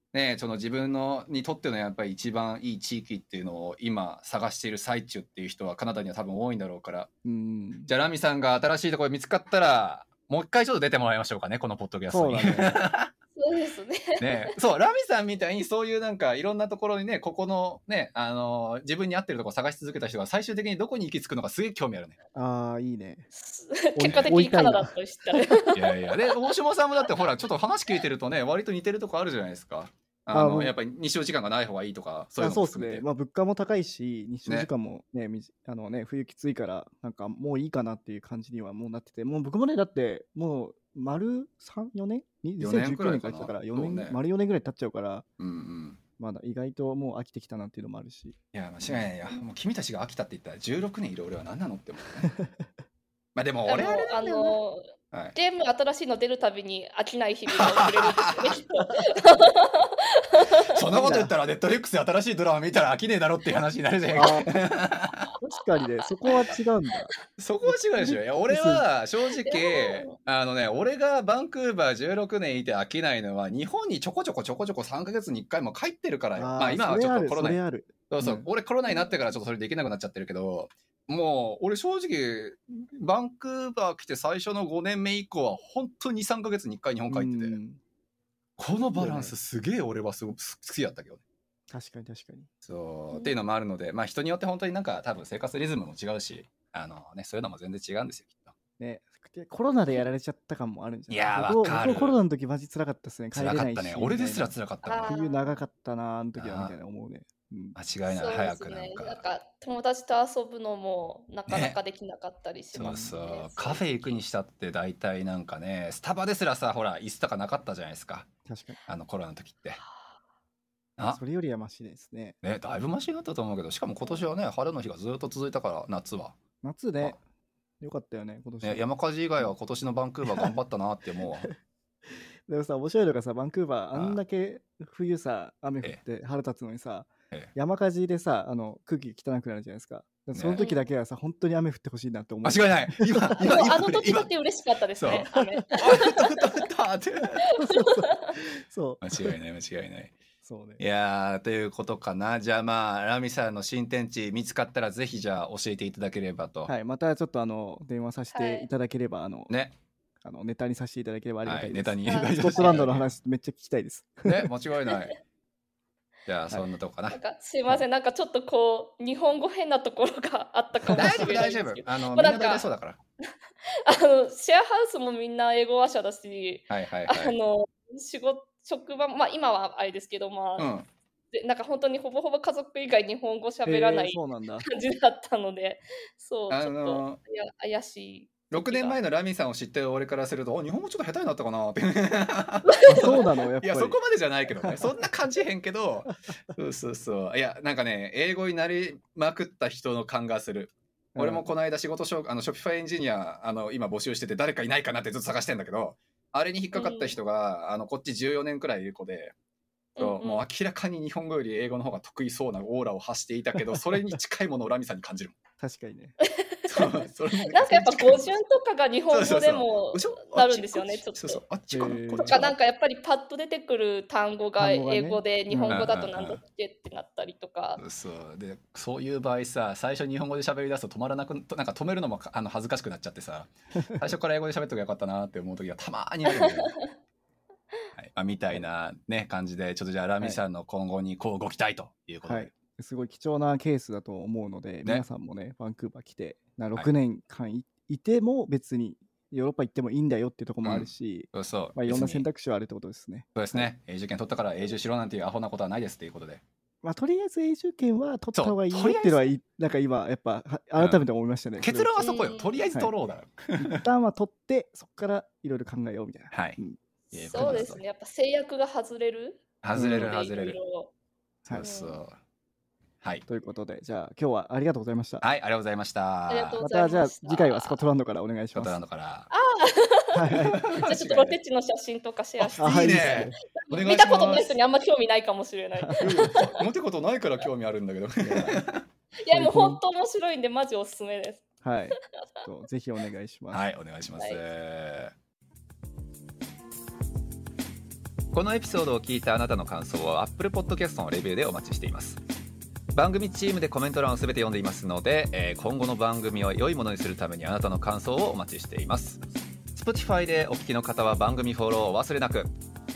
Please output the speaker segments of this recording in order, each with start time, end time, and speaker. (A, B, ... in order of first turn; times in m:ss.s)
0:00.1-0:07.1 A
0:07.2-0:07.9 B
0:07.9-0:13.1 A
0:12.1-0:12.8 B
0:13.3-0:14.5 C
0:14.2-0:22.2 A
0:22.3-0:23.3 B
0:23.3-0:26.4 C
0:23.9-0:25.6 B
0:24.0-0:24.3 A
0:25.7-0:33.0 A
0:30.3-0:30.7 B
0:32.4-0:45.2 B
0:42.6-0:44.2 A
0:45.4-0:46.0 A
0:46.2-0:48.4 B
0:48.5-0:52.4 A
0:52.4-0:52.6 B
0:53.3-0:54.6 A
0:53.6-1:00.8 C
0:57.5-0:58.6 A
1:00.7-1:05.3 A
1:00.9-1:01.3 B
1:04.1-1:04.5 B
1:05.4-1:07.1 B
1:07.4-1:27.6 A
1:07.7-1:08.8 B
1:09.4-1:10.2 C
1:16.4-1:18.5 B
1:27.1-1:27.8 B
1:28.6-1:31.2 A
1:28.9-1:29.3 B
1:31.7-1:32.5 B
1:32.6-1:38.5 A
1:38.8-1:44.5 B
1:41.1-1:42.2 A
1:43.3-1:45.1 A
1:44.8-1:45.6 C
1:45.1-1:47.8 B
1:46.4-1:46.7 A
1:47.8-1:49.2 A
1:48.1-1:54.2 C
1:51.5-1:51.8 A
1:52.7-1:53.1 B
1:52.7-1:58.3 A
1:58.4-1:58.8 B
1:58.9-1:59.8 A
2:01.1-2:02.4 B
2:02.4-2:06.4 A
2:06.6-2:07.2 B
2:07.8-2:08.8 B
2:08.6-2:11.5 A
2:10.3-2:10.6 B
2:12.1-2:23.7 B
2:13.9-2:14.2 A
2:20.3-2:20.6 A
2:20.6-2:20.9 C
2:22.4-2:24.3 A
2:23.4-2:26.5 C
2:25.0-2:27.5 A
2:25.1-2:25.4 B
2:27.6-2:28.4 C
2:27.6-2:29.4 B
2:29.0-2:30.2 A
2:30.4-2:30.8 B
2:30.8-2:36.7 A
2:36.7-2:39.5 B
2:38.3-2:38.7 C
2:39.5-2:39.7 A
2:40.2-2:44.5 B
2:41.4-2:43.1 A
2:42.0-2:42.9 C
2:44.2-2:45.2 A
2:46.2-2:47.2 A
2:47.1-2:52.7 C
2:50.9-2:53.0 A
2:53.8-3:00.7 C
2:56.7-2:57.3 A
3:00.6-3:00.9 A
3:01.3-3:09.0 C
3:03.6-3:04.6 B
3:06.5-3:07.2 A
3:08.5-3:29.3 A
3:12.7-3:13.2 C
3:12.9-3:14.0 B
3:14.6-3:15.0 B
3:21.1-3:21.4 B
3:26.7-3:27.2 C
3:30.0-3:30.4 C
3:30.0-3:35.3 A
3:33.5-3:34.2 B
3:35.6-3:36.2 B
3:36.2-3:41.4 C
3:36.7-3:38.4 A
3:39.1-3:42.6 A
3:41.7-3:42.4 B
3:42.2-3:47.8 C
3:44.6-3:45.9 B
3:45.7-3:46.4 A
3:47.8-3:56.8 A
3:56.2-3:56.9 C
3:58.0-4:02.5 A
4:02.2-4:13.7 B
4:10.6-4:12.2 A
4:13.3-4:16.4 A
4:16.8-4:22.0 B
4:18.3-4:19.3 A
4:20.8-4:21.0 A
4:21.6-4:23.8 A
4:22.0-4:22.6 C
4:23.6-4:26.8 B
4:26.3-4:26.6 A
4:27.1-4:27.8 A
4:27.1-4:30.9 C
4:27.3-4:27.8 B
4:29.6-4:30.6 A
4:29.7-4:30.1 B
4:31.5-4:32.2 A
4:31.6-4:32.0 C
4:33.3-4:35.2 B
4:35.2-4:36.6 A
4:36.3-4:37.8 C
4:36.6-4:38.8 B
4:38.5-4:39.3 A
4:39.3-4:46.6 C
4:40.1-4:40.6 B
4:40.3-4:41.4 A
4:42.4-4:44.6 A
4:42.6-4:43.4 B
4:45.8-4:46.4 B
4:46.0-4:48.8 A
4:48.2-4:48.6 B
4:49.2-4:51.4 C
4:49.3-4:49.8 B
4:51.6-4:53.6 B
4:53.5-4:55.1 A
4:58.3-5:02.2 A
5:02.9-5:09.2 A
5:09.7-5:12.5 A